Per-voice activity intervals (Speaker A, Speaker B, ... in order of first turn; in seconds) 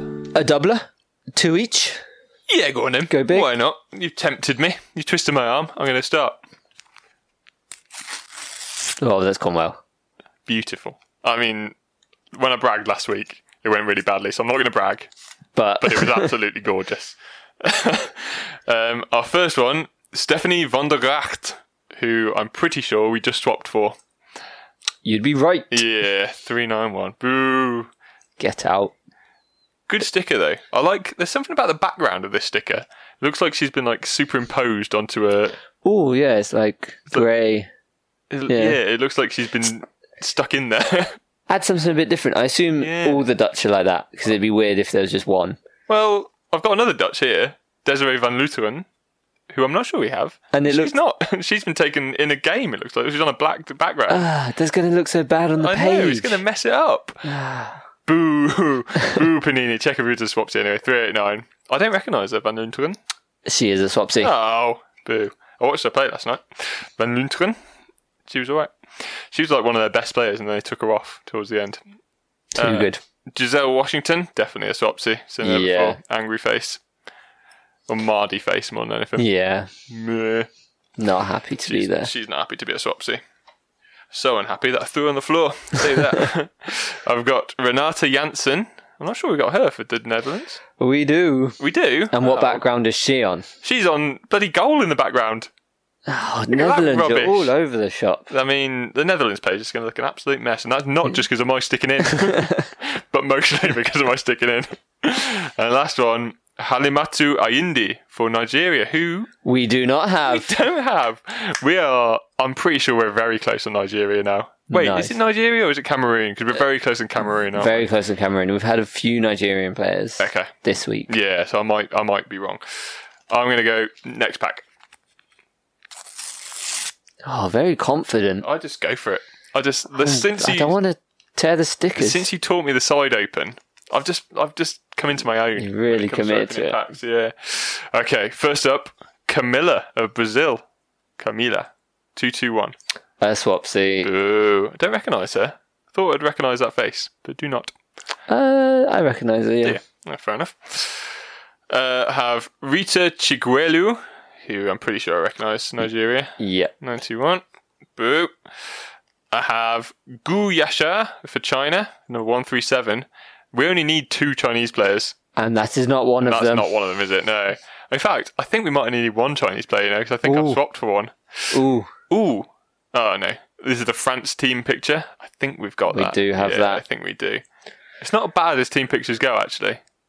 Speaker A: 0.3-2.0, 3.1-3.5, 9.0-9.8, 15.6-16.3, 25.0-25.8, 28.4-28.9, 35.8-37.7, 38.5-38.8, 41.5-45.6, 50.5-50.9, 54.1-56.4, 57.2-57.8, 63.5-64.3, 72.5-73.0, 75.4-76.0, 79.2-79.7, 81.0-82.1, 90.8-91.6, 92.1-93.5, 96.1-98.3, 109.4-110.5, 114.7-115.2, 117.5-121.1, 127.2-128.5, 129.9-132.3, 135.6-136.8, 143.2-144.1, 148.3-149.8, 156.4-156.7, 165.4-166.7, 170.2-170.6, 171.5-171.9, 175.9-176.8
Speaker B: 2.5-6.4, 10.4-11.7, 12.3-15.1, 15.8-24.0, 25.7-27.9, 29.9-35.6, 38.3-41.2, 42.8-43.2, 45.9-48.9, 49.5-54.3, 55.6-57.2, 58.1-63.0, 64.2-67.6, 68.3-68.7, 69.3-71.8, 72.5-76.8, 77.9-79.3, 79.9-80.5, 81.6-83.2, 84.1-90.6, 91.6-92.6, 93.6-95.5, 96.5-97.5, 98.3-109.3, 110.2-117.9, 120.2-120.5, 121.1-122.6, 123.3-124.6, 128.4-130.7, 131.9-140.6, 141.2-142.7, 144.0-147.7, 149.6-151.1, 151.7-157.4, 157.9-158.3, 159.3-165.1, 166.2-171.6, 172.1-177.4, 178.0-179.8